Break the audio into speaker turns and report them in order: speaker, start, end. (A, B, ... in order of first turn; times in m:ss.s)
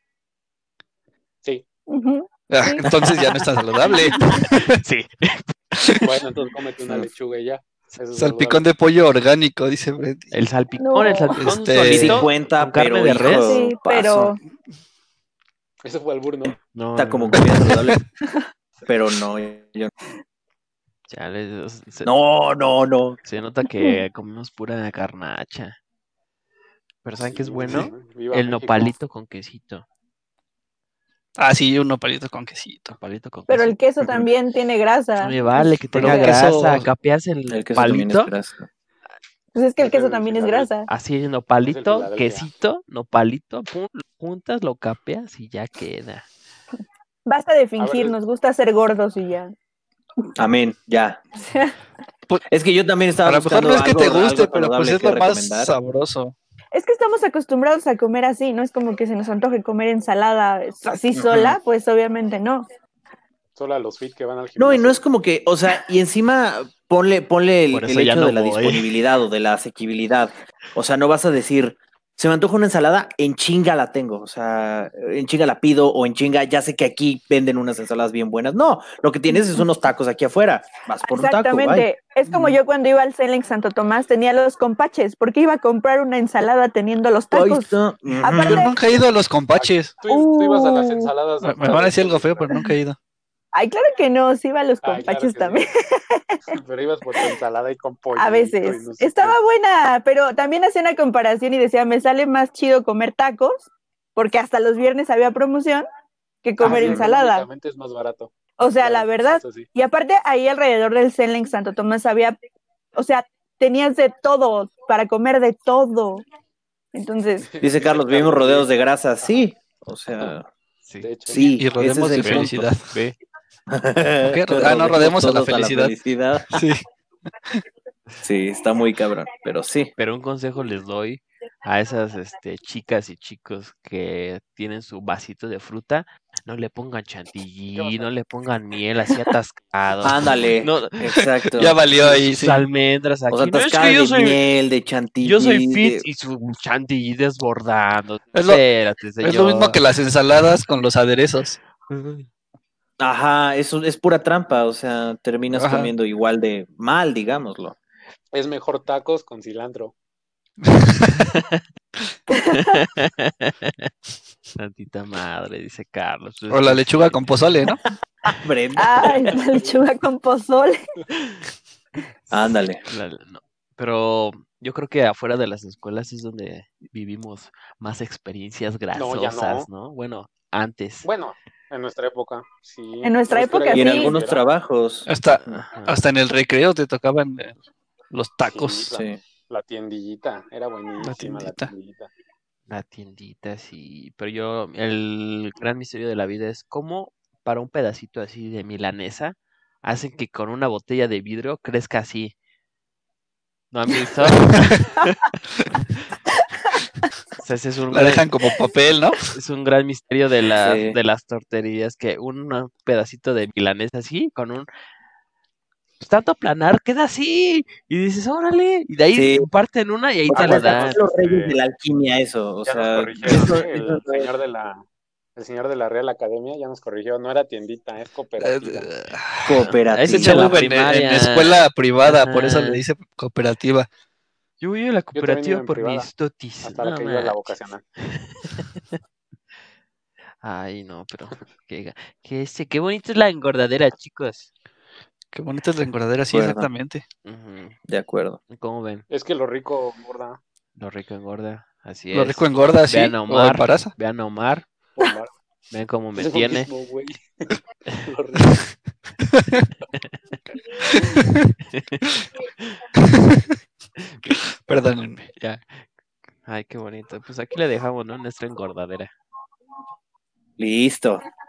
0:01.9-0:02.8 A
0:02.5-0:04.7 B
0:02.8-0:05.5 C
0:03.8-0:04.4 A
0:05.8-0:06.2 B
0:06.0-0:08.6 D
0:08.1-0:10.3 B
0:10.3-0:13.7 C
0:10.8-0:11.4 A
0:11.4-0:12.3 B
0:11.8-0:14.4 E
0:13.2-0:14.4 A
0:15.8-0:16.6 D
0:16.7-0:17.7 C
0:17.0-0:18.0 E
0:18.8-0:19.9 E
0:21.1-0:22.1 C
0:22.0-0:23.2 E
0:23.2-0:25.8 C
0:27.0-0:29.8 C
0:27.2-0:28.9 D
0:31.4-0:33.0 B
0:32.9-0:33.7 C
0:33.5-0:36.5 A
0:35.2-0:38.3 C
0:35.9-0:36.9 B
0:37.5-0:38.7 E
0:39.5-0:40.9 A
0:39.8-0:40.7 D
0:40.9-0:46.3 C
0:41.6-0:42.5 D
0:47.2-0:49.5 A
0:47.8-0:48.2 D
0:50.4-0:51.2 E
0:51.4-0:51.8 A
0:52.4-0:55.7 E
0:53.2-0:56.3 B
0:56.7-1:02.6 A
1:01.1-1:01.6 E
1:03.6-1:05.0 D
1:04.6-1:21.9 E
1:07.7-1:08.9 C
1:21.0-1:28.8 A
1:22.3-1:22.6 B
1:27.3-1:28.7 E
1:28.4-1:29.9 B
1:29.5-1:32.5 D
1:30.1-1:31.1 A
1:31.4-1:33.0 B
1:33.5-1:36.4 A
1:34.8-1:35.7 D
1:36.5-1:39.4 D
1:38.2-1:45.8 A
1:46.4-1:47.5 A
1:46.6-1:49.7 D
1:46.7-1:47.0 E
1:48.6-1:52.4 A
1:53.0-1:56.2 A
1:56.9-1:57.5 A
1:57.4-1:59.5 D
1:57.6-2:00.5 E
2:00.8-2:01.1 C
2:01.0-2:01.5 D
2:01.2-2:02.7 E
2:01.4-2:03.0 B
2:02.2-2:03.2 C
2:03.7-2:06.6 E
2:04.2-2:05.9 B
2:06.5-2:06.8 B
2:08.2-2:09.9 E
2:10.0-2:21.1 C
2:17.7-2:18.1 D
2:20.0-2:21.8 E
2:21.2-2:22.7 B
2:22.0-2:24.4 C
2:23.3-2:26.0 E
2:25.2-2:29.8 C
2:28.3-2:28.6 B
2:29.2-2:31.6 B
2:31.9-2:32.3 C
2:33.0-2:37.7 E
2:35.5-2:35.9 B
2:38.3-2:39.9 D
2:40.7-2:41.3 B
2:41.1-2:41.6 C
2:42.3-2:42.6 A
2:42.5-2:43.9 C
2:44.6-2:47.2 C
2:46.5-2:47.8 B
2:48.3-2:49.3 E
2:48.8-2:50.8 A
2:49.4-2:49.7 D
2:52.3-2:52.8 E
2:52.8-3:01.1 C
2:58.9-2:59.7 D
3:01.0-3:04.4 D
3:03.0-3:04.1 A
3:03.7-3:05.1 E
3:05.1-3:07.6 B
3:05.3-3:06.0 C
3:08.1-3:08.9 B
3:08.5-3:12.1 D
3:08.9-3:09.2 E
3:11.0-3:11.7 B
3:12.7-3:22.3 C
3:23.7-3:24.7 C
3:24.3-3:24.9 B
3:27.4-3:28.2 C
3:27.9-3:29.2 B
3:29.3-3:34.7 C
3:30.6-3:31.0 E
3:36.0-3:41.0 C
3:39.1-3:39.5 E
3:40.3-3:44.3 E
3:40.3-3:41.6 D
3:42.6-3:44.8 D
3:45.4-3:48.9 D
3:48.4-3:53.9 B
3:49.4-3:50.6 E
3:49.6-3:52.8 C
3:54.6-3:59.0 C
3:55.1-3:56.1 D
3:56.6-3:57.8 D
4:00.4-4:04.5 C
4:05.3-4:07.0 B
4:06.3-4:06.7 E
4:07.2-4:07.8 C
4:07.9-4:08.4 E
4:08.5-4:09.0 C
4:09.1-4:10.4 D
4:10.8-4:14.6 C
4:12.1-4:13.9 B
4:15.0-4:15.4 D
4:15.7-4:16.7 C
4:16.2-4:18.6 D
4:19.4-4:19.7 B
4:20.8-4:21.3 B
4:21.6-4:22.0 C
4:23.0-4:23.5 B
4:24.0-4:24.4 C
4:24.2-4:25.3 B
4:25.4-4:25.9 C
4:26.4-4:29.1 C
4:30.6-4:31.2 E